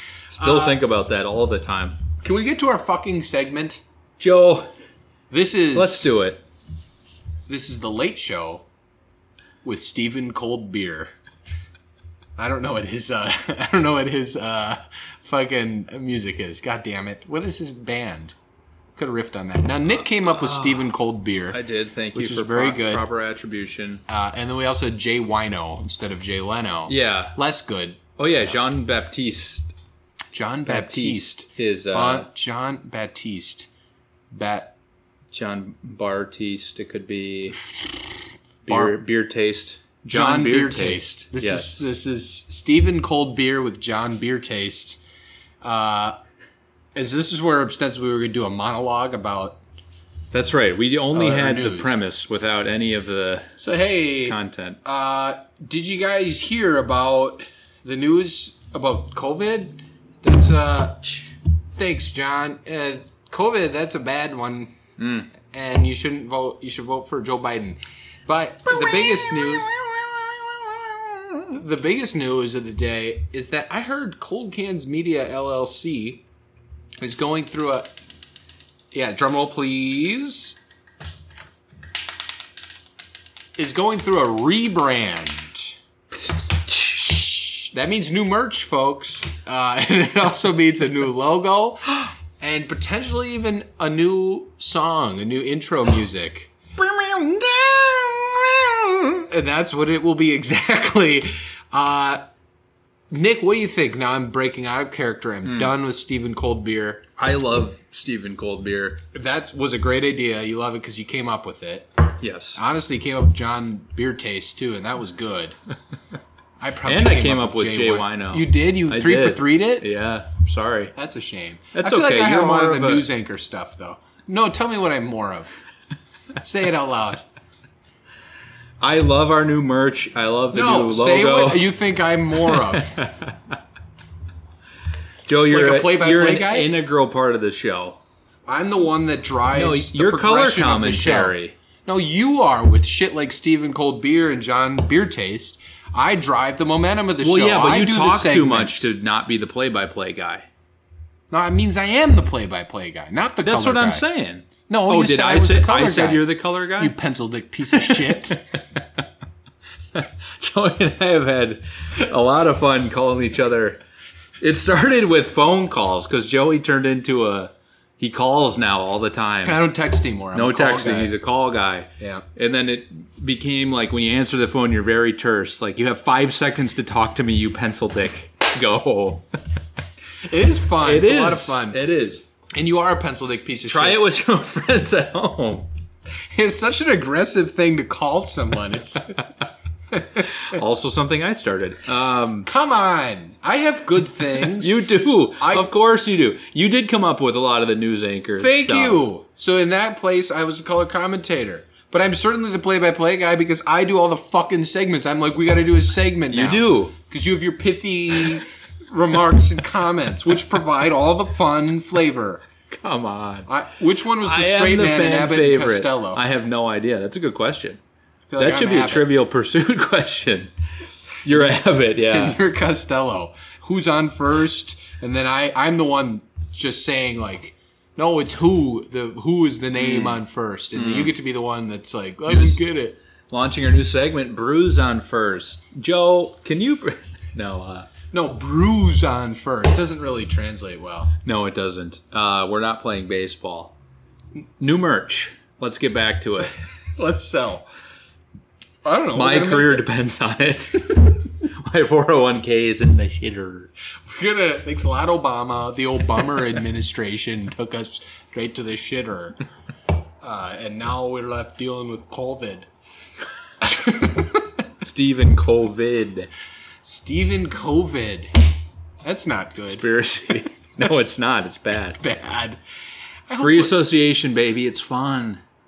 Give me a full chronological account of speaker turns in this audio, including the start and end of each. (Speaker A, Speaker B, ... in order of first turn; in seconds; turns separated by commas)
Speaker A: 0.3-2.0, Speaker B: 0.3-0.8, Speaker B: 2.2-3.8, Speaker A: 4.2-4.7, Speaker B: 5.3-6.1, Speaker A: 5.7-6.4, Speaker B: 7.5-8.7, Speaker B: 9.6-11.1, Speaker B: 12.4-18.4, Speaker B: 19.0-21.6, Speaker A: 20.3-20.9, Speaker A: 21.5-24.0, Speaker B: 22.1-23.1, Speaker B: 24.1-28.0, Speaker A: 26.9-27.4, Speaker A: 28.2-29.7, Speaker B: 30.3-33.7, Speaker A: 30.7-32.3, Speaker B: 34.3-34.7, Speaker A: 35.3-37.6, Speaker A: 38.6-41.8, Speaker B: 38.7-39.0, Speaker B: 40.1-45.0, Speaker B: 45.6-46.2, Speaker B: 47.0-49.6, Speaker A: 50.3-53.5, Speaker B: 51.1-52.0, Speaker B: 53.6-64.8, Speaker A: 54.2-54.8, Speaker A: 65.0-65.3, Speaker B: 65.4-69.9, Speaker B: 71.3-76.2, Speaker B: 77.0-77.9, Speaker B: 78.9-80.6, Speaker B: 83.6-85.8, Speaker B: 86.7-102.2, Speaker B: 103.1-107.0, Speaker A: 105.4-105.7, Speaker A: 107.2-109.0, Speaker B: 109.1-111.9, Speaker A: 112.2-112.6, Speaker B: 112.5-115.6, Speaker B: 116.6-119.9, Speaker A: 116.8-120.9, Speaker B: 121.0-125.5, Speaker A: 121.7-123.1, Speaker B: 126.4-127.2, Speaker A: 128.8-131.7, Speaker B: 130.5-133.0, Speaker A: 132.4-133.6, Speaker A: 135.3-138.0, Speaker B: 135.5-136.8, Speaker B: 138.5-148.9, Speaker A: 139.5-141.6, Speaker A: 147.2-150.5, Speaker B: 151.3-154.1, Speaker A: 153.4-157.0, Speaker B: 154.7-158.4, Speaker A: 157.7-159.0, Speaker A: 159.9-163.8, Speaker A: 164.4-169.6, Speaker B: 169.4-171.2, Speaker A: 170.3-179.3, Speaker B: 172.0-172.2, Speaker B: 180.3-181.8, Speaker A: 180.8-182.2, Speaker B: 182.5-184.0, Speaker A: 183.7-185.7, Speaker B: 186.3-189.3, Speaker B: 189.9-190.6, Speaker A: 190.2-192.5, Speaker B: 192.4-194.8, Speaker A: 194.4-199.0, Speaker B: 195.4-195.7, Speaker B: 198.4-212.4, Speaker A: 206.3-206.9, Speaker A: 212.7-213.5, Speaker B: 213.5-216.2, Speaker A: 214.2-217.8, Speaker B: 218.3-219.1, Speaker A: 218.4-220.5, Speaker A: 221.2-222.4, Speaker B: 221.3-233.0, Speaker A: 229.8-230.2, Speaker A: 230.8-231.2, Speaker A: 232.3-232.6, Speaker A: 233.3-237.9, Speaker B: 238.1-241.1, Speaker A: 241.2-243.8, Speaker A: 244.6-246.5, Speaker B: 247.0-247.7, Speaker B: 248.8-249.9, Speaker A: 249.1-253.7, Speaker B: 254.1-259.4, Speaker B: 260.2-262.7, Speaker B: 263.6-264.4, Speaker A: 264.8-266.3, Speaker B: 266.8-268.3, Speaker B: 269.0-269.9, Speaker A: 269.7-272.0, Speaker B: 272.0-272.6, Speaker B: 273.3-273.8, Speaker A: 273.4-275.4